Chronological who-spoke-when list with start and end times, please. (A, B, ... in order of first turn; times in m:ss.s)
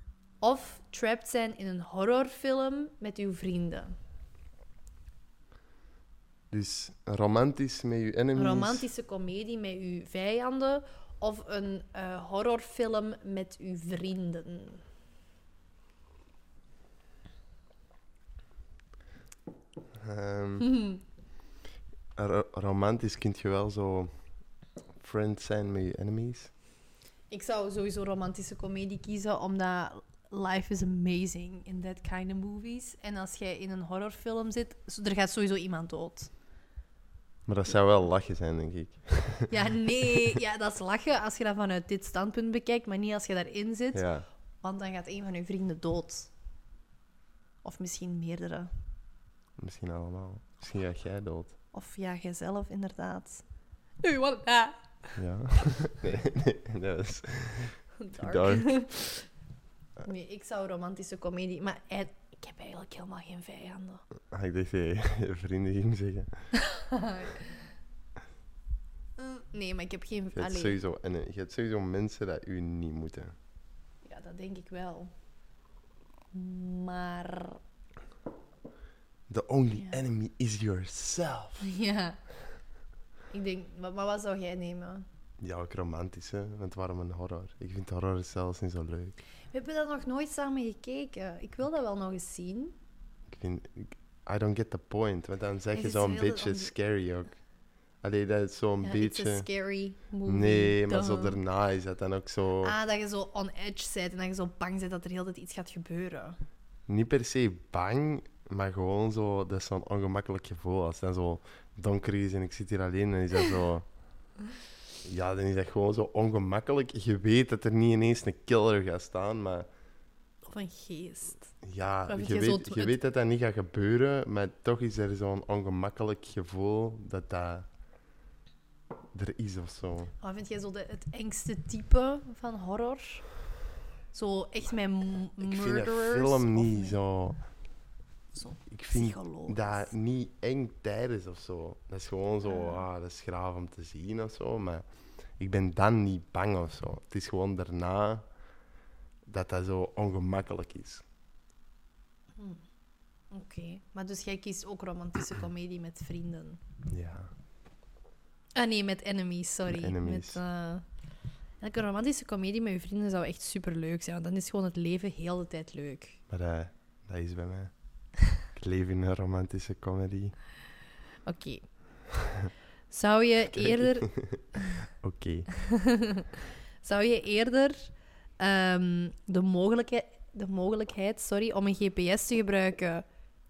0:00.4-0:03.9 A
0:06.5-0:08.9 B
0:08.4-0:14.8 A
0:20.0-0:20.7 B
0:20.6-0:21.0 A
0:22.2-0:24.1 B
0:25.0-0:26.5 B
0:27.3-0:36.3 A
0:37.5-0:40.4 B
0:39.5-0:44.0 A
0:43.9-0:44.3 B
0:44.6-0:46.3 A
0:47.6-0:48.7 A
0:49.6-0:51.6 B
0:51.7-0:53.4 A
0:54.0-0:55.1 A
0:55.2-0:59.0 B
0:58.0-0:59.1 A
1:00.0-1:04.0 A
1:04.3-1:06.3 B
1:06.5-1:07.6 A
1:09.2-1:10.8 A
1:10.3-1:13.4 B
1:14.0-1:15.1 A
1:16.3-1:17.6 A
1:19.3-1:21.6 B
1:21.6-1:22.2 A
1:23.3-1:25.0 A
1:25.4-1:29.2 B
1:29.5-1:32.7 A
1:33.3-1:37.3 B
1:35.7-1:36.7 A
1:38.0-1:39.5 B
1:38.8-1:41.4 A
1:40.3-1:42.8 B
1:42.6-1:46.4 A
1:46.9-1:53.9 B
1:55.0-1:59.7 B
2:00.4-2:01.5 A
2:01.6-2:07.7 B
2:02.1-2:03.0 A
2:09.1-2:10.1 B
2:10.2-2:13.3 A
2:14.1-2:17.0 A
2:15.4-2:17.4 B
2:18.3-2:19.9 A
2:18.7-2:24.8 B
2:22.4-2:22.8 A
2:25.4-2:28.2 B
2:29.3-2:31.0 B
2:32.4-2:32.6 A
2:33.3-2:36.6 A
2:36.9-2:37.3 B
2:38.6-2:40.8 A
2:39.7-2:40.4 B
2:41.6-2:46.2 A
2:46.3-2:47.7 B
2:48.5-2:50.4 B
2:51.2-2:51.7 A
2:52.9-2:54.8 A
2:53.5-2:55.5 B
2:55.6-2:56.3 A
2:56.8-3:03.0 A